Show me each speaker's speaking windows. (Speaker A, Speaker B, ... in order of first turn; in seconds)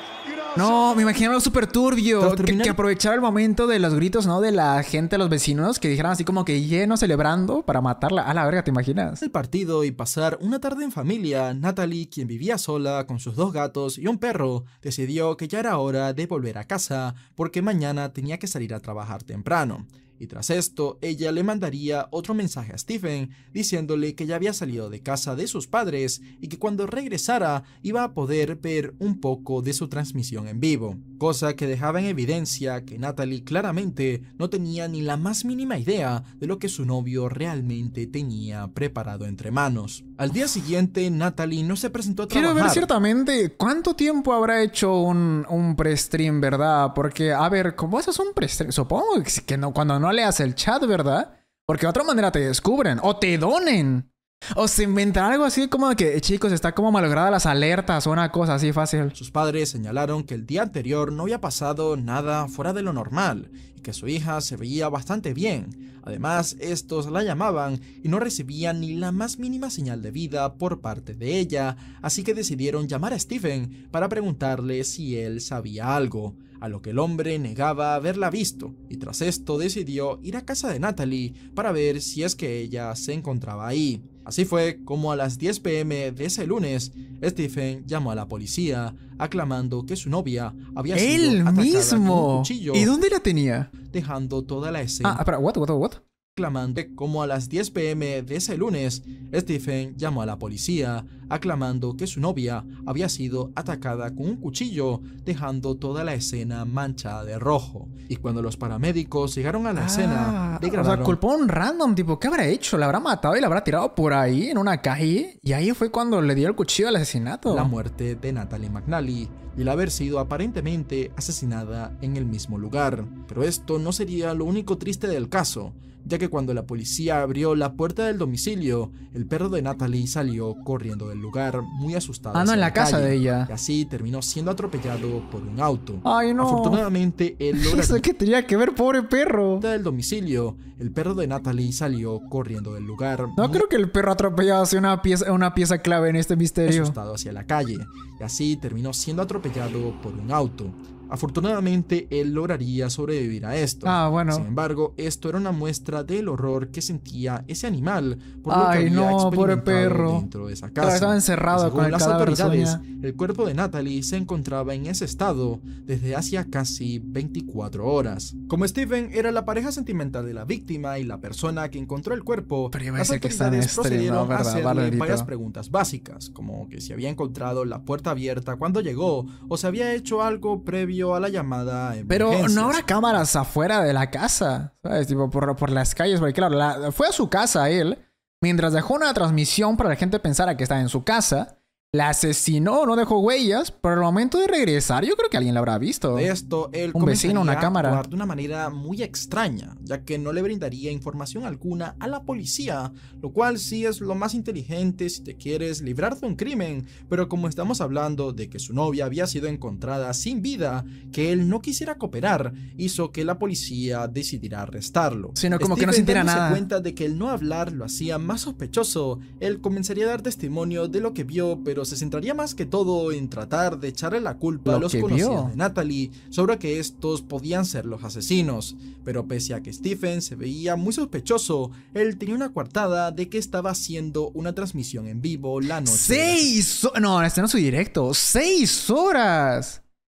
Speaker A: 0.2-1.1, 2.2-2.8, 9.2-42.9, 59.1-92.9, 93.9-95.2, 96.4-111.2, 117.5-138.1, 139.6-143.7, 146.7-183.2, 196.1-236.5
Speaker B: 0.6-9.2, 42.3-59.2, 90.9-93.7, 95.0-96.0, 109.8-117.7, 132.3-133.5, 136.1-136.8, 137.5-139.7, 143.4-147.0, 153.8-154.5, 158.5-160.3, 160.8-162.8, 172.7-175.3, 182.1-196.3, 196.9-198.0, 215.4-216.6, 224.7-225.6, 235.8-239.8